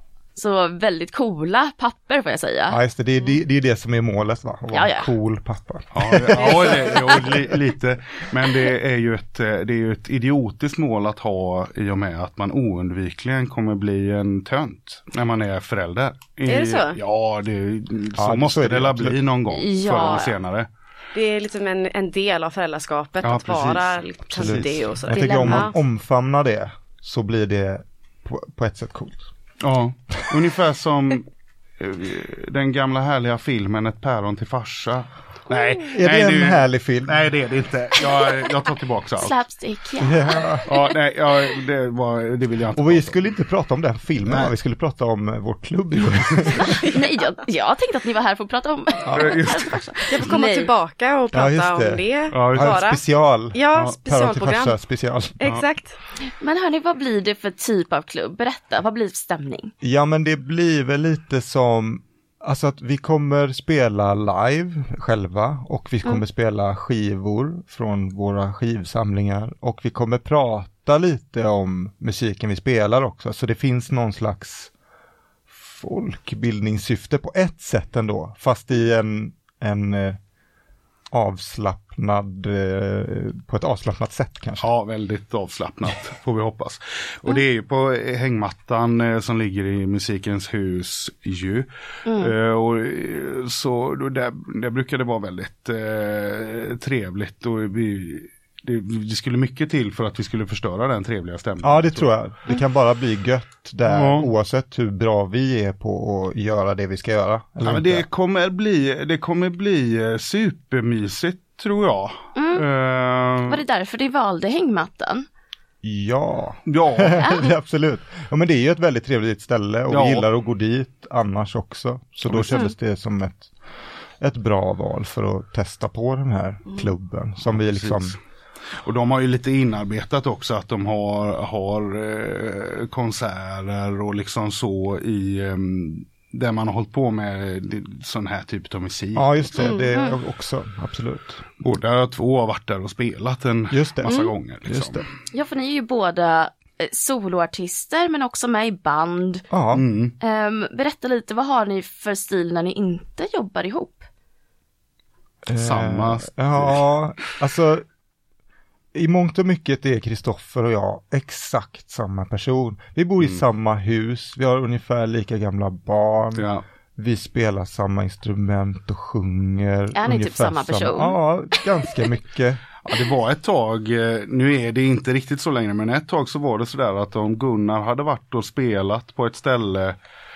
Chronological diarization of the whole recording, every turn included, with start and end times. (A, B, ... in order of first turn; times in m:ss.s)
0:00.3-0:02.8 A
0:02.7-0:07.4 B
0:04.7-0:05.1 A
0:05.9-0:20.7 C
0:16.5-0:17.0 D
0:18.2-0:19.2 B
0:19.5-0:20.4 A
0:21.1-0:25.7 D
0:23.2-0:24.9 C
0:24.3-0:29.3 B
0:25.1-0:25.7 A
0:29.6-0:39.4 C
0:35.9-0:37.3 B
0:39.2-0:40.9 A
0:40.0-0:40.7 B
0:40.7-0:43.3 C
0:42.7-0:46.9 B
0:44.2-0:44.5 C
0:46.6-0:50.7 A
0:49.0-0:49.4 B
0:49.1-0:49.8 C
0:50.1-0:54.8 D
0:51.3-0:55.4 B
0:52.3-0:52.8 C
0:55.4-0:56.0 D
0:56.2-0:59.7 A
0:59.8-1:14.7 B
1:15.5-1:20.2 B
1:21.1-1:24.7 B
1:24.6-1:42.1 C
1:32.0-1:32.3 A
1:41.6-1:48.0 B
1:43.8-1:44.3 C
1:47.6-1:53.6 C
1:52.4-1:52.6 A
1:53.4-1:55.2 A
1:55.8-2:03.5 B
1:56.7-1:57.2 C
1:57.2-1:57.5 A
1:59.9-2:00.3 C
2:02.3-2:02.6 C
2:04.2-2:08.2 B
2:07.4-2:08.2 C
2:08.8-2:19.7 C
2:19.1-2:21.4 B
2:19.9-2:20.2 A
2:21.6-2:25.0 C
2:23.7-2:25.0 B
2:25.3-2:29.4 A
2:29.5-2:29.8 B
2:29.7-2:30.1 C
2:30.2-2:34.1 A
2:35.4-2:37.8 B
2:35.5-2:36.9 C
2:38.9-2:52.7 B
2:46.4-2:46.6 C
2:49.9-2:51.2 A
2:52.8-3:00.0 C